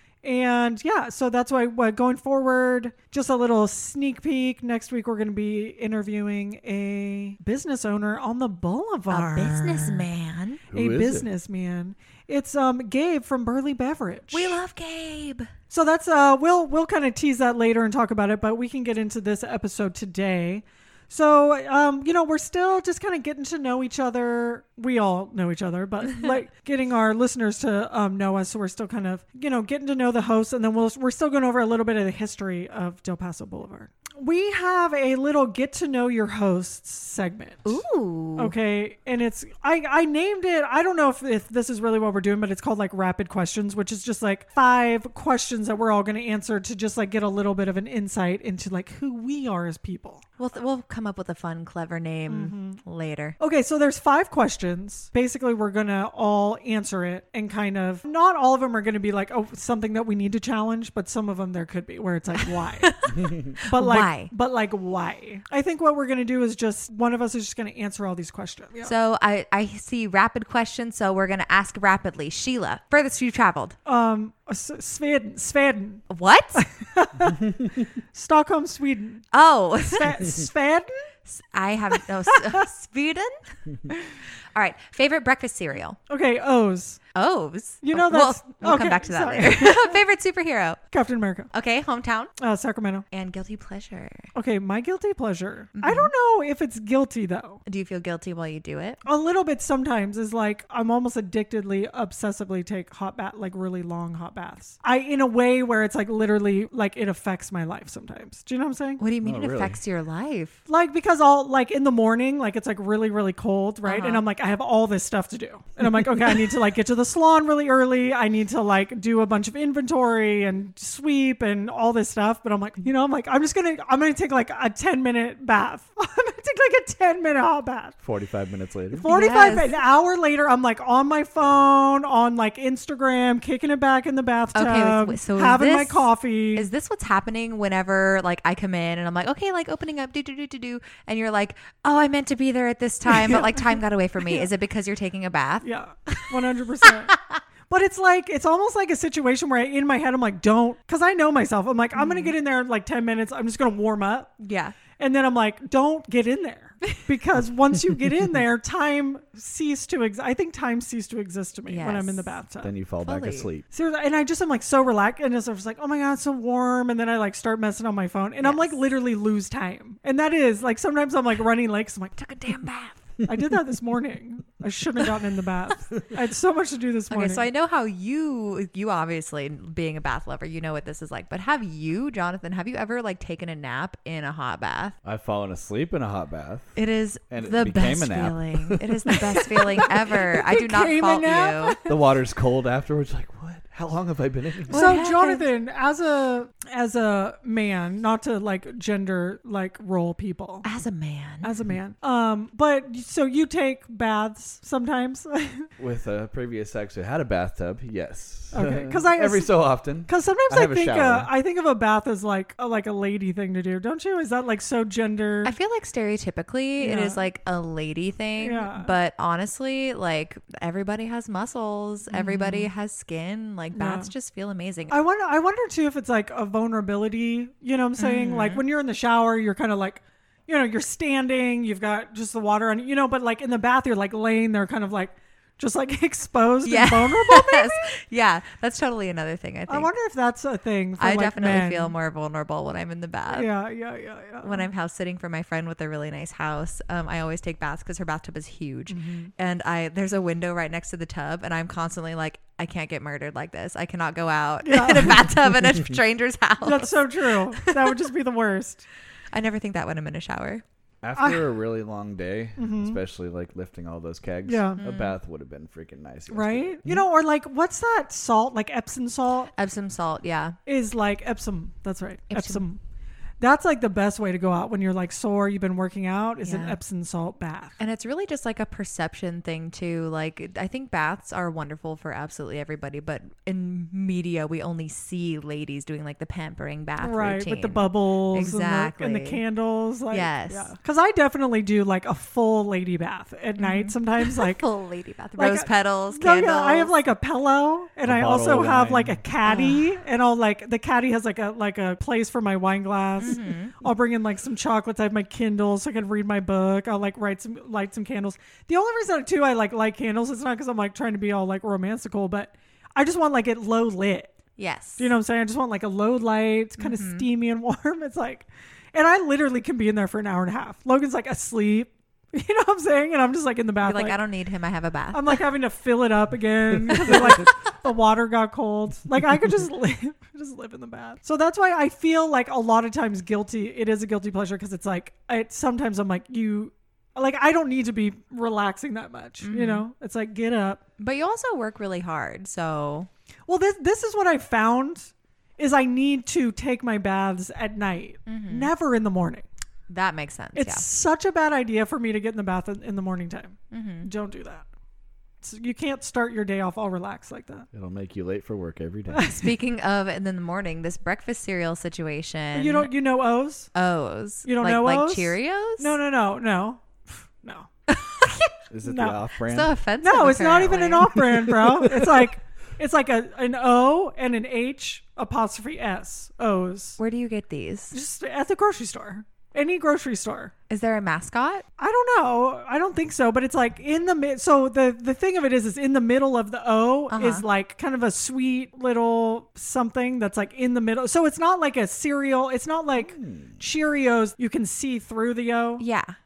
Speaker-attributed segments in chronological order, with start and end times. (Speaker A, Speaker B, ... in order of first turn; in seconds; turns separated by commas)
Speaker A: 0.2-10.1, Speaker B: 9.1-10.6, Speaker C: 10.7-11.3, Speaker A: 10.7-14.6, Speaker B: 14.3-15.5, Speaker A: 15.7-37.8, Speaker B: 37.7-38.5, Speaker A: 38.4-50.2, Speaker B: 50.4-53.4, Speaker A: 52.3-52.8, Speaker A: 53.4-62.9, Speaker B: 62.4-64.3, Speaker C: 63.1-63.6, Speaker A: 63.6-68.9, Speaker B: 68.8-73.8, Speaker A: 73.9-77.5, Speaker B: 76.1-76.6, Speaker A: 78.1-79.3, Speaker B: 79.3-80.1, Speaker A: 79.8-81.0, Speaker B: 81.3-83.4, Speaker A: 82.3-82.7, Speaker B: 84.5-86.0, Speaker A: 86.1-87.0, Speaker B: 87.2-90.8, Speaker A: 87.8-90.0, Speaker A: 90.9-91.5, Speaker B: 91.5-92.3, Speaker A: 92.4-93.0, Speaker B: 93.1-94.3, Speaker A: 94.3-97.6, Speaker B: 95.8-96.1, Speaker B: 97.7-99.0, Speaker A: 99.0-109.0, Speaker B: 109.0-110.6, Speaker C: 109.2-109.8, Speaker A: 110.7-128.0, Speaker B: 113.8-114.2, Speaker C: 128.0-129.1, Speaker A: 128.9-136.7, Speaker B: 129.0-129.8, Speaker B: 134.6-146.3, Speaker A: 143.1-143.6, Speaker A: 144.2-144.5, Speaker A: 145.6-147.1, Speaker B: 147.1-147.4, Speaker A: 147.7-154.3, Speaker B: 152.0-152.3, Speaker B: 154.4-154.8, Speaker A: 155.0-162.7, Speaker B: 161.7-162.3, Speaker C: 162.6-163.7, Speaker B: 163.0-163.5, Speaker A: 163.7-172.3, Speaker B: 168.4-168.8, Speaker B: 172.2-173.0, Speaker A: 173.2-177.5, Speaker B: 177.1-184.9, Speaker C: 185.0-186.7, Speaker B: 186.8-191.8, Speaker C: 187.3-189.2, Speaker A: 189.4-191.9, Speaker C: 191.9-194.8, Speaker A: 194.7-200.7, Speaker B: 194.7-195.5, Speaker B: 200.6-201.5, Speaker A: 201.4-205.7, Speaker C: 205.8-211.3, Speaker A: 208.5-215.5, Speaker B: 215.4-224.9, Speaker A: 216.8-217.2, Speaker A: 218.4-218.9, Speaker A: 222.1-222.7, Speaker A: 223.7-224.1, Speaker A: 224.9-237.9, Speaker B: 228.0-228.6, Speaker B: 236.7-239.9, Speaker A: 239.7-241.9, Speaker B: 241.0-243.5, Speaker A: 243.3-244.7, Speaker B: 244.4-257.9, Speaker A: 248.9-249.3, Speaker A: 254.7-255.2, Speaker A: 256.6-258.9, Speaker B: 259.3-260.6, Speaker C: 261.0-267.0, Speaker A: 261.2-261.4, Speaker A: 262.6-263.0, Speaker A: 264.4-264.8, Speaker B: 264.8-265.1, Speaker A: 266.3-269.5, Speaker B: 269.6-270.6, Speaker A: 270.7-272.8, Speaker B: 272.3-272.6, Speaker A: 273.4-277.8, Speaker B: 276.4-276.8, Speaker B: 277.8-289.4, Speaker A: 287.0-294.6, Speaker B: 290.1-290.7, Speaker B: 293.6-296.9, Speaker A: 295.4-314.3, Speaker C: 298.1-299.3, Speaker B: 299.4-299.9, Speaker B: 303.2-303.8, Speaker B: 314.6-315.1, Speaker A: 315.0-324.2, Speaker B: 316.8-317.3, Speaker B: 323.8-325.4, Speaker A: 325.1-340.8, Speaker B: 326.9-327.5, Speaker B: 339.4-339.9, Speaker B: 341.0-343.1, Speaker A: 343.5-349.4, Speaker B: 348.3-348.7, Speaker B: 349.9-350.9, Speaker A: 350.6-354.7, Speaker B: 353.7-354.1, Speaker A: 355.4-357.7, Speaker C: 357.7-359.3, Speaker A: 359.1-359.5, Speaker B: 359.3-362.9, Speaker A: 362.5-363.7, Speaker B: 363.8-365.9, Speaker A: 364.4-367.7, Speaker B: 367.9-368.6, Speaker C: 368.7-369.8, Speaker A: 368.8-369.2, Speaker B: 369.4-371.3, Speaker A: 370.0-377.0, Speaker C: 371.5-372.1, Speaker B: 377.0-378.0, Speaker A: 377.9-380.5, Speaker B: 380.7-381.6, Speaker A: 381.8-395.8, Speaker B: 387.1-387.5, Speaker C: 393.0-393.6, Speaker B: 395.8-396.2